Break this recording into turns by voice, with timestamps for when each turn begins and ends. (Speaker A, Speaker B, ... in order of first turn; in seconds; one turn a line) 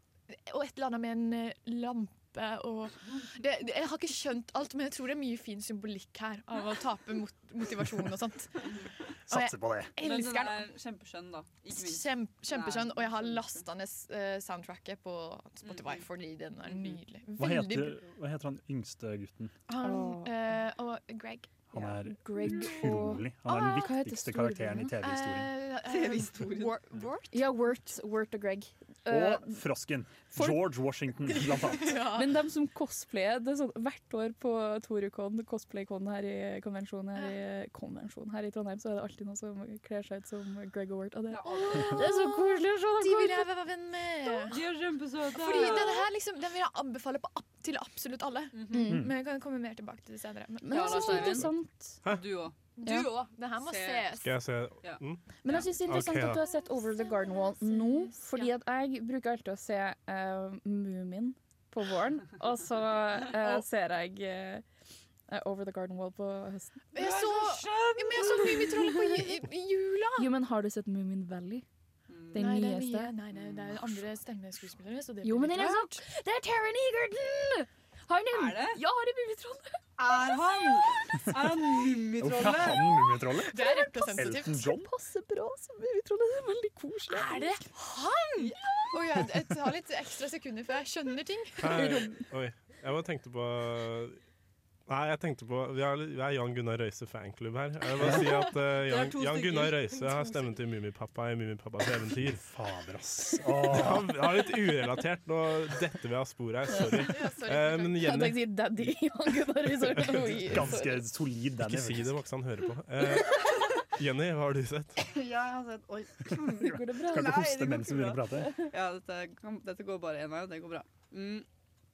Speaker A: 0.3-10.7
Speaker B: 9.3-9.9
Speaker C: 10.0-13.7
Speaker A: 11.7-18.0
Speaker C: 15.6-16.0
Speaker C: 16.6-17.0
Speaker B: 17.4-19.5
Speaker A: 19.7-21.6
Speaker D: 19.8-20.3
Speaker B: 21.7-25.5
Speaker D: 21.8-24.9
Speaker A: 22.4-23.9
Speaker A: 25.0-27.4
Speaker C: 25.9-26.8
Speaker D: 27.3-29.6
Speaker B: 29.1-32.1
Speaker D: 30.3-30.7
Speaker A: 31.5-32.4
Speaker D: 31.8-43.5
Speaker C: 41.3-42.1
Speaker A: 41.7-42.4
Speaker A: 43.0-44.6
Speaker C: 44.5-46.1
Speaker A: 45.3-51.5
Speaker C: 48.5-48.9
Speaker D: 48.7-49.1
Speaker B: 48.9-49.1
Speaker D: 50.6-52.0
Speaker C: 50.7-51.5
Speaker C: 52.1-52.6
Speaker A: 52.8-54.4
Speaker D: 52.8-53.1
Speaker C: 53.6-54.1
Speaker E: 54.2-55.2
Speaker D: 55.4-64.6
Speaker E: 55.9-56.4
Speaker A: 57.3-58.5
Speaker D: 65.3-66.8
Speaker A: 66.9-70.3
Speaker C: 67.0-68.9
Speaker D: 70.2-71.7
Speaker C: 72.1-72.4
Speaker D: 72.3-73.1
Speaker A: 72.3-76.0
Speaker C: 73.3-73.7
Speaker D: 75.2-79.7
Speaker C: 78.3-78.8
Speaker C: 80.0-83.0
Speaker B: 82.2-84.9
Speaker A: 83.5-84.7
Speaker D: 83.6-87.6
Speaker A: 87.1-91.7
Speaker E: 91.6-94.2
Speaker D: 91.7-92.2
Speaker E: 94.9-102.4
Speaker B: 98.0-98.3
Speaker C: 98.8-100.5
Speaker B: 102.3-104.1
Speaker E: 103.7-108.5
Speaker D: 106.7-107.1
Speaker A: 107.0-108.2
Speaker D: 108.0-111.0
Speaker E: 110.1-110.4
Speaker B: 110.5-112.2
Speaker E: 111.6-115.0
Speaker C: 115.1-121.5
Speaker B: 116.5-118.5
Speaker D: 116.6-117.4
Speaker D: 118.4-118.7